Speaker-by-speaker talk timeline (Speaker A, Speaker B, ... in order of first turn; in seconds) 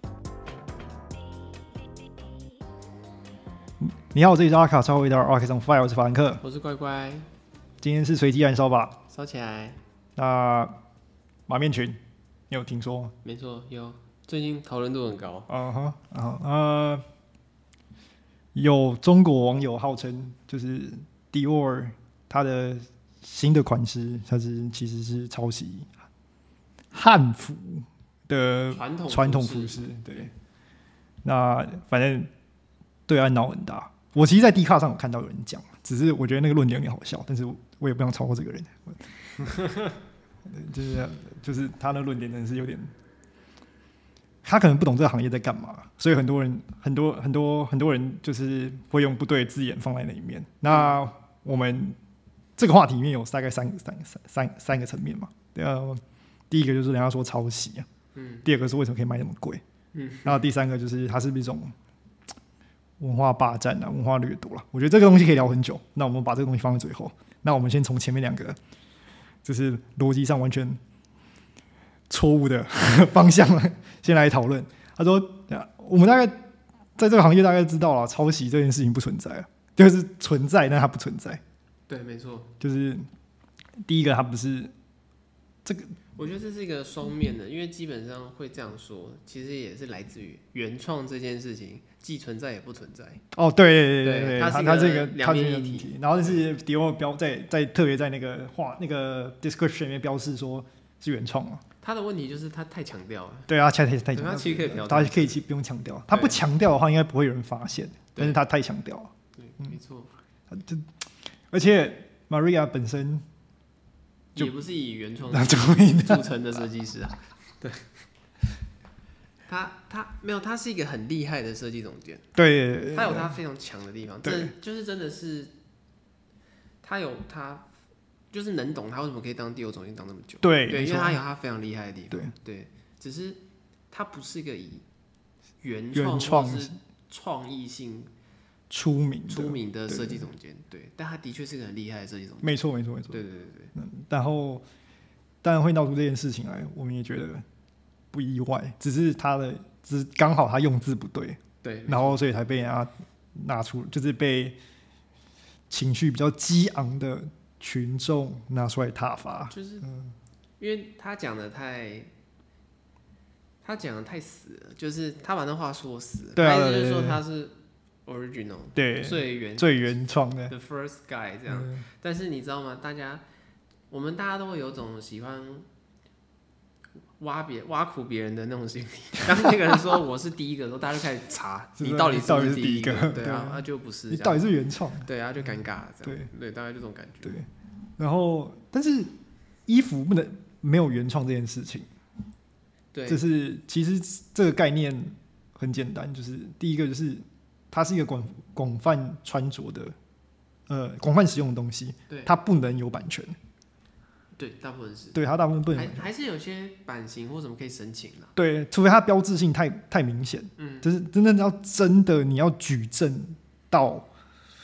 Speaker A: 3.8-6.4, 7.8-9.0, 10.2-10.8, 11.5-12.0, 12.5-13.1, 15.5-17.0, 18.5-25.9, 26.9-30.3, 31.2-32.3, 33.1-39.0, 40.5-42.9, 44.4-52.0, 52.6-57.9, 58.4-59.6, 60.2-61.7, 63.0-68.6, 69.4-70.8, 72.1-81.4, 82.6-83.1, 83.8-84.7, 85.6-85.9, 93.3-101.6, 103.5-109.8, 110.5-110.9, 111.5-113.2, 115.3-116.6, 122.3-123.3, 124.2-124.5, 130.4-131.2, 135.9-136.7, 138.7-140.2, 142.4-143.2, 143.7-144.6, 145.4-147.4, 148.1-154.6, 155.7-160.1, 166.3-167.2, 168.7-170.5, 171.5-171.8, 181.8-185.1, 186.0-186.3, 188.0-189.1, 189.7-191.9, 193.1-199.9, 200.7-203.4, 205.1-206.1, 208.3-214.1
Speaker B: 6.4-7.3, 9.1-9.8, 13.2-15.5, 28.7-30.3, 50.7-51.0, 58.1-58.4, 59.9-60.4, 81.9-82.5, 86.2-93.2, 94.0-96.4, 101.8-103.5, 104.1-105.4, 106.1-106.4, 109.4-110.1, 114.3-118.0, 119.5-122.3, 122.9-125.5, 126.8-127.7, 128.3-134.8, 135.6-138.1, 139.3-142.6, 143.1-143.7, 151.6-152.2, 159.5-159.9, 160.6-162.1, 163.6-169.9, 170.5-173.2, 173.9-175.7, 177.2-184.4, 185.0-187.4, 192.9-193.2, 202.1-202.3, 204.4-205.2, 205.7-208.3, 210.6-210.9